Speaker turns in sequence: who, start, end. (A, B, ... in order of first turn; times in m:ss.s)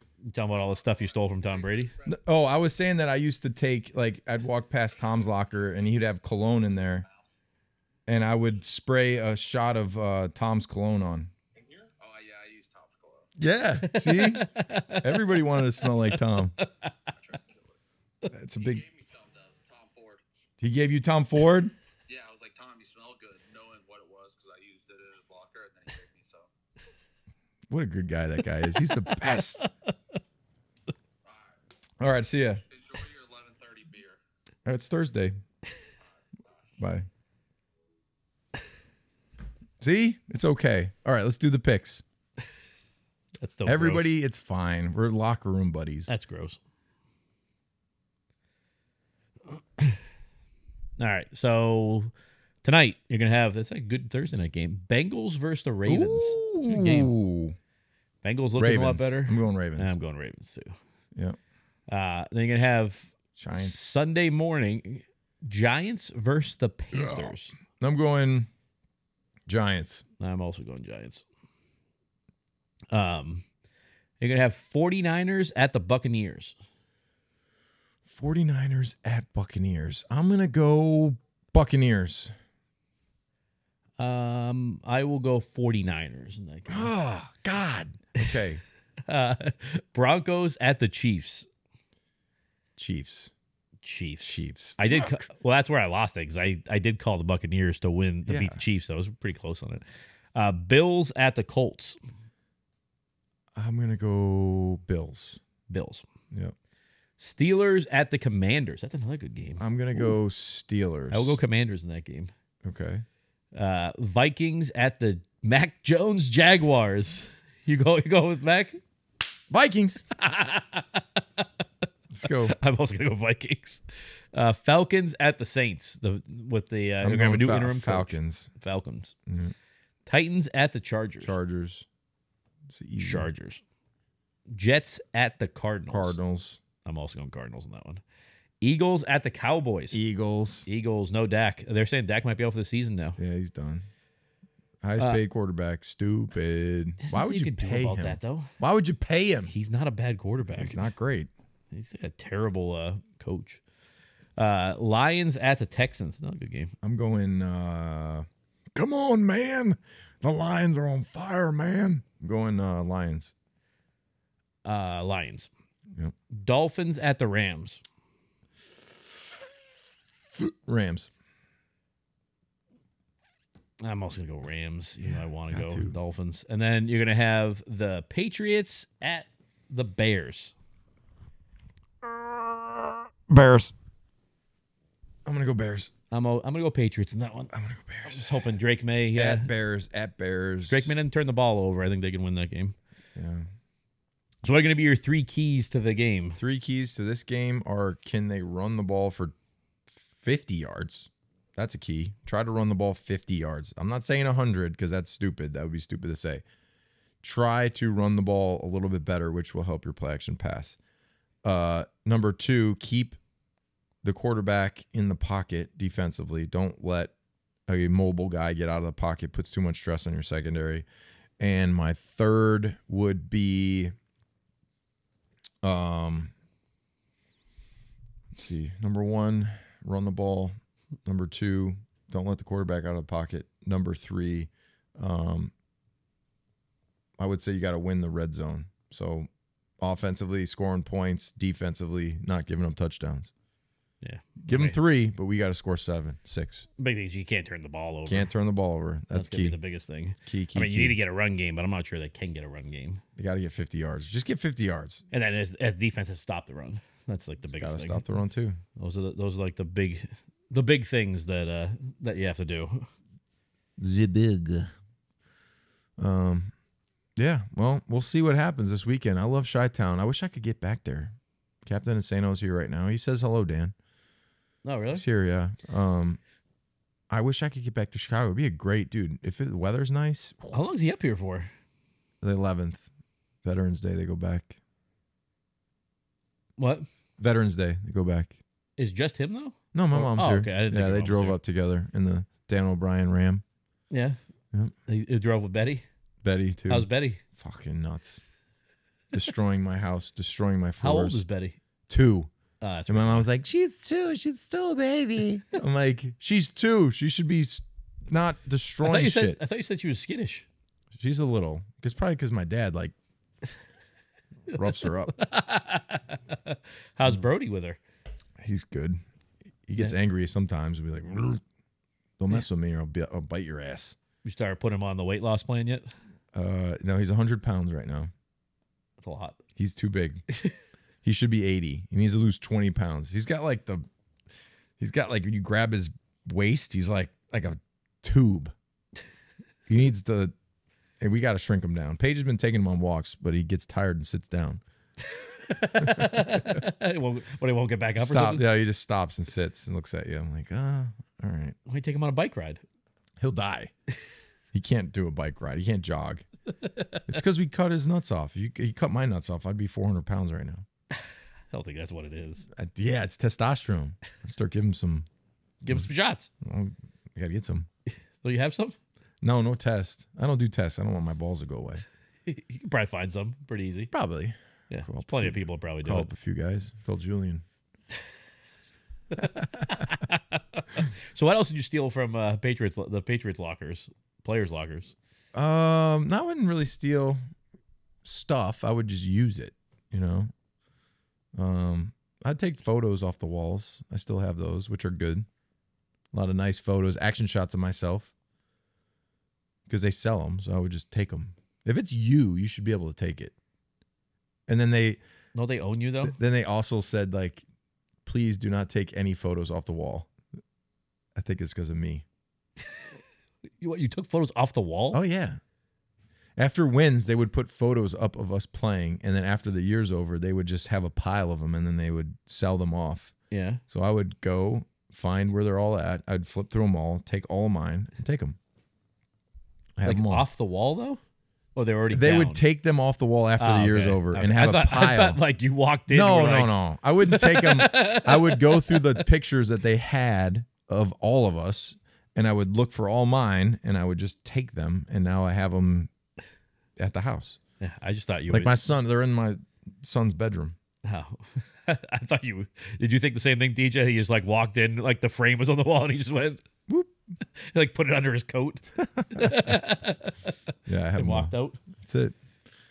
0:00.2-0:01.9 A
0:00.5-0:02.2 B
0:02.1-0:07.1 C
0:07.0-0:07.3 B
0:08.1-0:11.3 C
0:11.6-0:13.3 B
0:13.4-0:16.5 C
0:13.8-0:15.4 A
0:16.0-0:16.9 A
0:17.1-0:17.8 B
0:18.3-0:18.8 C
0:18.6-0:20.2 B
0:20.6-0:21.7 C
0:22.1-0:26.5 B
0:27.7-0:29.7 C
0:28.9-0:29.9 A
0:31.2-0:31.6 B
0:32.0-0:32.6 C
0:32.7-0:34.2 B
0:34.7-0:35.4 C
0:36.0-0:36.8 B
0:36.8-0:37.1 C
0:39.8-0:42.0 C
0:43.4-0:44.1 A
0:43.6-0:46.1 C
0:46.1-0:46.6 A
0:51.0-0:52.1 A
0:52.6-0:57.1 A
0:55.9-0:57.6 C
0:58.2-1:00.8 A
0:58.6-1:00.0 C
1:01.9-1:07.6 A
1:03.4-1:03.8 C
1:06.9-1:08.5 C
1:09.5-1:10.0 C
1:10.2-1:11.2 A
1:12.9-1:13.5 A
1:14.2-1:16.6 A
1:18.1-1:22.3 C
1:24.0-1:26.9 A
1:26.7-1:28.6 C
1:29.1-1:31.5 A
1:32.8-1:33.3 C
1:33.8-1:39.8 A
1:34.2-1:35.2 C
1:38.3-1:38.6 C
1:40.4-1:42.0 A
1:43.6-1:45.4 C
1:45.7-1:46.1 A
1:47.2-1:50.2 A
1:49.6-1:51.4 C
1:51.1-1:52.3 A
1:52.6-1:53.0 C
1:53.6-1:58.8 A
1:59.5-2:00.0 C
2:00.2-2:01.4 A
2:02.1-2:02.6 C
2:02.2-2:09.2 A
2:07.0-2:08.5 C
2:09.3-2:09.5 C
2:10.1-2:11.3 A
2:11.2-2:11.9 C
2:12.7-2:13.3 C
2:13.0-2:13.6 A
2:14.5-2:16.2 A
2:15.9-2:16.6 C
2:16.8-2:18.0 A
2:18.6-2:20.0 A
2:19.9-2:20.7 C
2:20.7-2:23.2 A
2:23.2-2:23.8 C
2:24.8-2:29.5 C
2:27.0-2:28.5 A
2:29.5-2:30.9 A
2:30.5-2:31.3 C
2:31.7-2:33.6 A
2:34.4-2:36.7 A
2:36.8-2:43.3 C
2:44.6-2:45.5 A
2:46.3-2:47.8 A
2:50.4-2:51.1 C
2:53.8-3:00.5 A
2:55.0-2:56.0 C
3:02.2-3:03.7 C
3:05.2-3:05.9 C
3:06.1-3:07.5 A
3:07.5-3:08.6 C
3:08.1-3:09.5 A
3:09.2-3:11.0 C
3:10.7-3:12.8 A
3:13.2-3:13.5 C
3:14.4-3:16.4 A
3:16.4-3:19.4 C
3:19.9-3:26.4 C
3:27.2-3:30.8 C
3:31.4-3:33.2 C
3:34.0-3:37.2 C
3:37.7-3:40.9 C
3:41.4-3:43.9 C
3:45.6-3:46.3 C
3:48.4-3:50.5 C
3:51.0-3:55.5 C
3:57.2-3:59.3 C
3:59.8-4:03.3 C
4:04.0-4:04.8 A
4:04.4-4:06.7 C
4:06.8-4:08.3 A
4:08.1-4:09.6 C
4:09.1-4:13.0 A
4:10.3-4:11.0 C
4:13.2-4:15.0 C
4:15.1-4:18.0 A
4:17.5-4:18.6 C
4:18.8-4:22.9 A
4:23.8-4:24.7 C
4:26.0-4:26.5 C
4:27.2-4:33.7 C
4:34.6-4:35.0 A
4:34.9-4:36.2 C
4:37.1-4:40.6 C
4:40.5-4:41.5 A
4:42.2-4:42.9 C
4:43.4-4:44.6 C
4:46.6-4:46.9 A
4:47.2-4:48.4 C
4:48.8-4:51.4 A
4:49.7-4:53.4 C
4:53.9-4:54.2 A
4:54.9-4:55.8 A
4:56.2-4:58.2 C
4:56.7-4:57.2 A
4:59.1-5:01.2 C
5:00.8-5:01.6 A
5:01.9-5:02.3 C
5:02.6-5:03.3 A
5:02.9-5:09.4 C
5:08.8-5:10.5 A
5:10.9-5:13.0 C
5:14.5-5:15.2 C
5:15.2-5:17.8 A
5:18.4-5:19.0 C
5:19.7-5:21.4 C
5:22.2-5:24.0 C
5:24.2-5:25.9 A
5:26.3-5:28.1 C
5:29.0-5:29.4 A
5:29.6-5:30.2 C
5:31.0-5:33.9 C
5:34.8-5:38.5 C
5:39.7-5:40.4 C
5:41.0-5:44.6 C
5:45.0-5:48.4 A
5:45.8-5:46.7 C
5:48.0-5:51.6 C
5:51.7-5:52.6 A
5:53.2-5:53.7 C
5:54.5-5:56.2 C
5:56.6-5:57.1 A
5:57.1-6:00.6 C
6:01.5-6:02.5 A
6:02.5-6:05.1 C
6:05.6-6:06.3 A
6:06.4-6:07.7 C
6:08.2-6:08.8 A
6:09.2-6:11.8 C
6:12.2-6:13.9 A
6:13.9-6:17.4 C
6:14.7-6:16.1 A
6:19.1-6:25.0 A
6:19.2-6:19.9 C
6:25.3-6:27.2 C
6:28.0-6:30.3 C
6:31.4-6:35.3 C
6:36.1-6:38.1 C
6:39.7-6:43.4 C
6:44.5-6:45.0 C
6:45.4-6:46.2 A
6:46.0-6:47.4 C
6:48.0-6:50.1 C
6:51.2-6:52.1 C
6:53.6-6:55.0 A
6:54.9-6:55.4 C
6:56.4-7:03.1 C
7:03.3-7:03.6 A
7:03.7-7:08.4 C
7:09.8-7:10.2 C
7:09.8-7:11.0 A
7:11.6-7:12.4 A
7:11.9-7:15.2 C
7:13.4-7:19.0 A
7:15.9-7:25.9 C
7:26.8-7:27.4 C
7:27.6-7:28.6 A
7:28.3-7:30.6 C
7:30.8-7:36.4 A
7:37.2-7:40.2 A
7:38.8-7:39.6 C
7:40.7-7:42.2 C
7:41.0-7:41.6 A